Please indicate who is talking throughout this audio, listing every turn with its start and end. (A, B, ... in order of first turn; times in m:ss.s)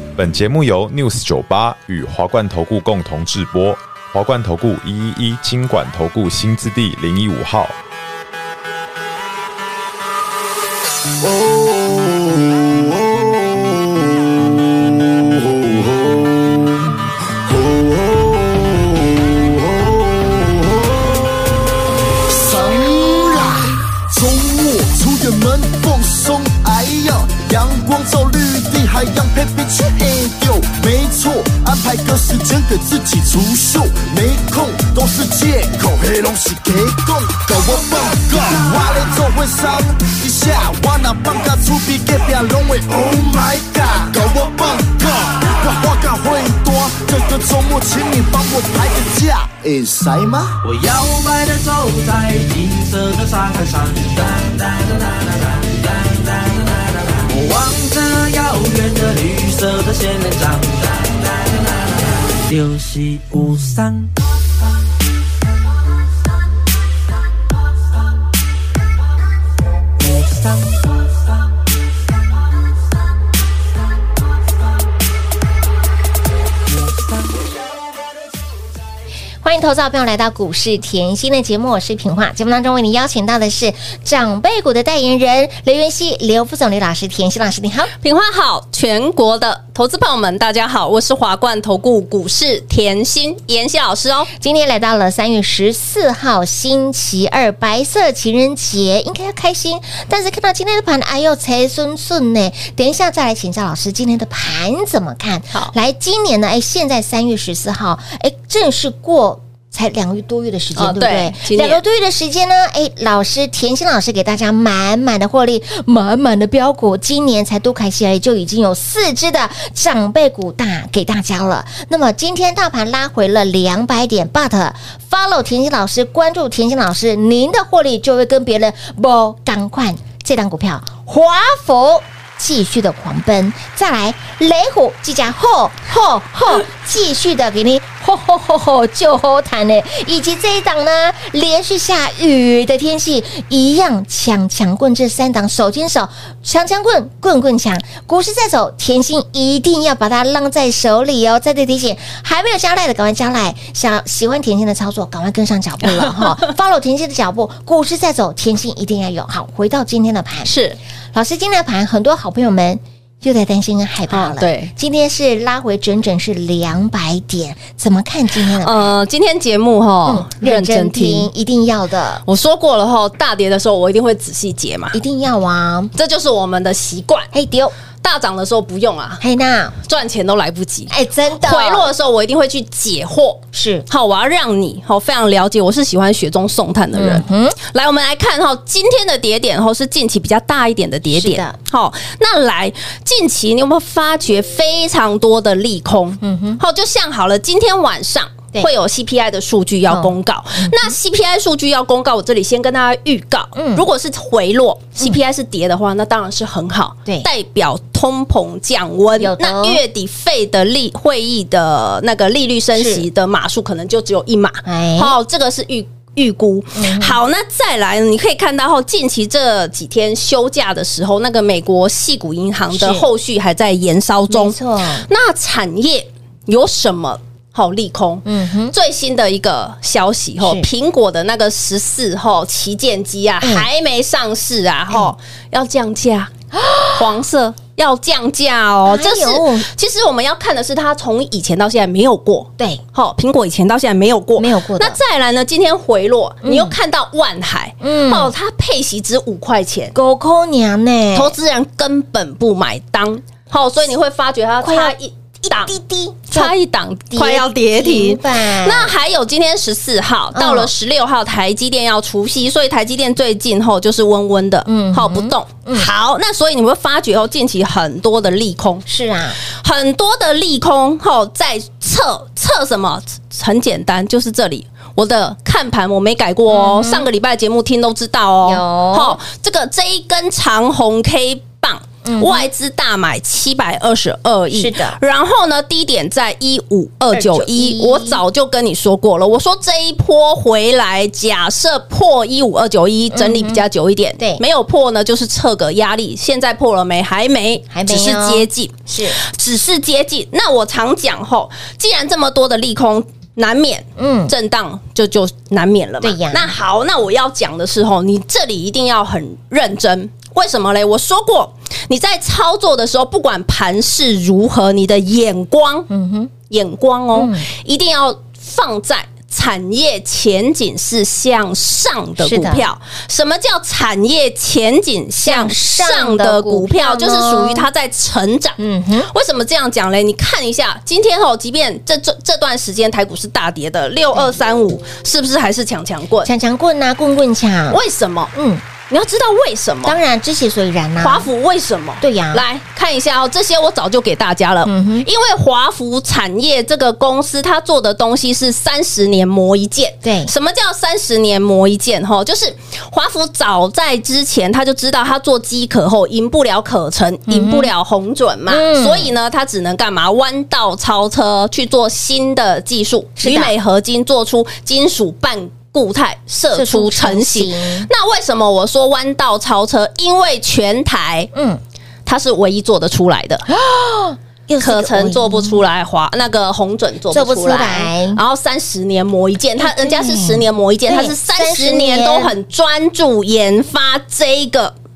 0:00.2-0:07.8 A
0:11.4-0:12.2 B
0:17.5-0:21.0 B
0:22.3-0:50.6 B
0:50.6-1:04.2 C
1:10.0-1:11.5 C
1:16.7-1:17.5 C
1:19.4-1:27.9 D
1:28.0-1:34.3 E
1:34.4-2:40.5 D
1:50.8-1:51.8 E
2:35.8-2:36.5 E
2:40.4-2:40.8 E
2:41.1-2:48.9 D
2:44.1-2:44.7 E
2:48.6-2:51.3 E
2:50.1-2:52.2 D
2:52.3-2:55.0 E
2:54.9-2:55.9 D
2:56.0-2:57.3 E
2:57.3-2:57.7 D
2:58.0-2:59.2 E
2:59.2-2:59.8 D
2:59.8-3:56.3 E
3:00.9-3:01.9 D
3:03.5-3:03.9 D
3:06.9-3:07.6 D
3:11.1-3:11.6 D
3:16.2-3:16.6 D
3:19.9-3:21.0 D
3:23.6-3:23.8 D
3:29.2-3:29.8 D
3:32.7-3:33.1 D
3:34.6-3:35.2 D
3:36.8-3:37.2 D
3:42.7-3:43.1 D
3:44.3-3:45.1 D
3:48.2-3:48.8 D
3:50.4-3:50.7 D
3:53.4-3:53.7 D
3:54.9-3:55.1 D
3:56.5-3:57.0 D
3:56.9-4:09.9 E
3:58.9-3:59.7 D
4:04.4-4:05.0 D
4:06.4-4:06.8 D
4:07.8-4:08.3 D
4:09.9-4:11.4 D
4:11.1-4:15.8 E
4:14.6-4:16.5 D
4:16.3-4:28.8 E
4:17.1-4:18.9 D
4:20.3-4:20.7 D
4:24.7-4:25.9 D
4:28.9-4:29.4 D
4:29.4-5:15.9 E
4:36.5-4:37.1 D
4:38.4-4:39.2 D
4:42.0-4:42.5 D
4:44.5-4:45.0 D
4:47.1-4:48.2 D
4:53.1-4:53.6 D
4:57.7-4:59.2 D
5:04.0-5:04.3 D
5:06.0-5:06.5 D
5:15.9-5:16.3 D
5:16.5-5:36.3 E
5:17.1-5:17.5 D
5:22.2-5:22.7 D
5:25.2-5:27.7 D
5:28.6-5:29.1 D
5:36.2-5:37.8 D
5:37.7-5:38.3 E
5:38.3-5:38.6 D
5:38.9-5:40.0 E
5:39.8-5:41.3 D
5:41.0-6:11.3 E
5:42.0-5:42.4 D
5:44.6-5:45.1 D
5:50.0-5:50.3 D
5:57.3-5:57.7 D
5:58.5-5:59.1 D
6:03.2-6:03.5 D
6:06.5-6:07.9 D
6:11.3-6:11.6 D
6:12.1-6:13.5 E
6:13.5-6:15.6 D
6:14.6-6:24.8 E
6:17.1-6:18.2 D
6:19.6-6:22.3 D